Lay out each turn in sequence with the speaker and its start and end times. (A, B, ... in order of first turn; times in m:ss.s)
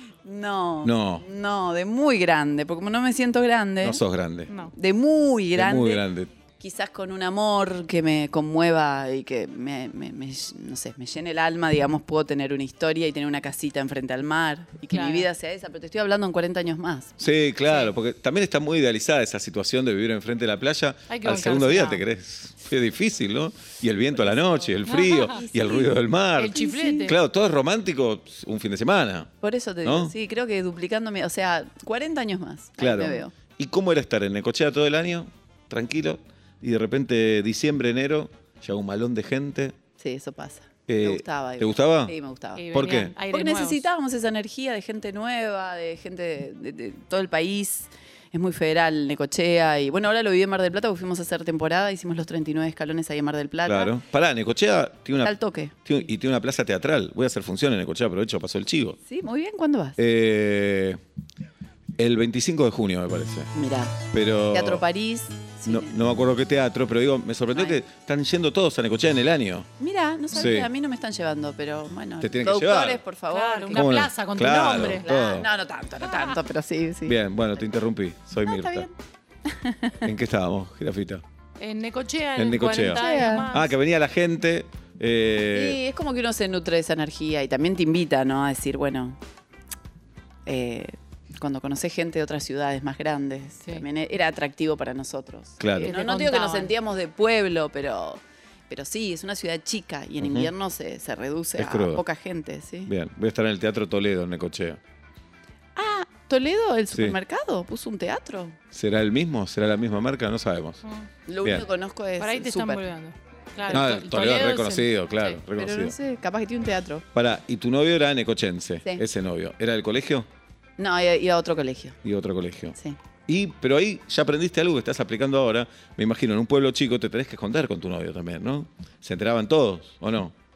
0:00.2-0:04.0 A
0:00.8-0:01.2 B
0:03.8-0:04.5 B
0:04.7-0:06.0 A
0:05.6-0:06.3 B
0:06.6-0:17.1 A
0:14.9-0:15.3 C
0:17.2-0:30.1 B
0:21.1-0:22.0 C
0:24.8-0:25.3 C
0:25.3-0:27.1 A
0:26.4-0:27.2 C
0:29.4-0:33.3 A
0:32.8-0:39.7 B
0:40.0-0:42.6 A
0:40.9-0:42.1 B
0:42.6-0:43.8 C
0:42.7-0:43.1 B
0:43.3-0:53.9 A
0:53.6-0:59.0 B
0:55.2-0:55.8 A
0:59.1-1:00.0 A
1:00.0-1:01.0 B
1:02.0-1:03.5 B
1:03.5-1:04.0 A
1:04.1-1:04.8 B
1:04.5-1:05.9 A
1:05.7-1:09.7 B
1:07.5-1:07.8 A
1:09.8-1:13.9 A
1:10.3-1:10.7 B
1:12.2-1:13.0 B
1:13.3-1:15.1 C
1:13.7-1:15.5 B
1:15.0-1:17.6 A
1:17.0-1:18.9 B
1:18.4-1:18.9 A
1:19.5-1:20.0 A
1:20.0-1:21.2 B
1:21.6-1:23.7 C
1:22.4-1:23.0 B
1:22.9-1:23.5 A
1:23.5-1:25.8 B
1:25.5-1:29.2 A
1:30.4-1:42.9 A
1:35.6-1:35.9 B
1:35.8-1:36.7 C
1:40.2-1:40.5 B
1:41.6-1:42.0 B
1:42.8-1:44.8 B
1:45.8-1:48.6 A
1:46.9-1:47.2 B
1:48.7-1:50.8 B
1:51.3-1:52.8 A
1:52.2-1:55.4 C
1:53.7-1:55.9 B
1:55.6-1:57.0 A
1:57.1-2:00.3 B
2:00.8-2:02.0 A
2:02.0-2:02.8 B
2:03.3-2:10.3 B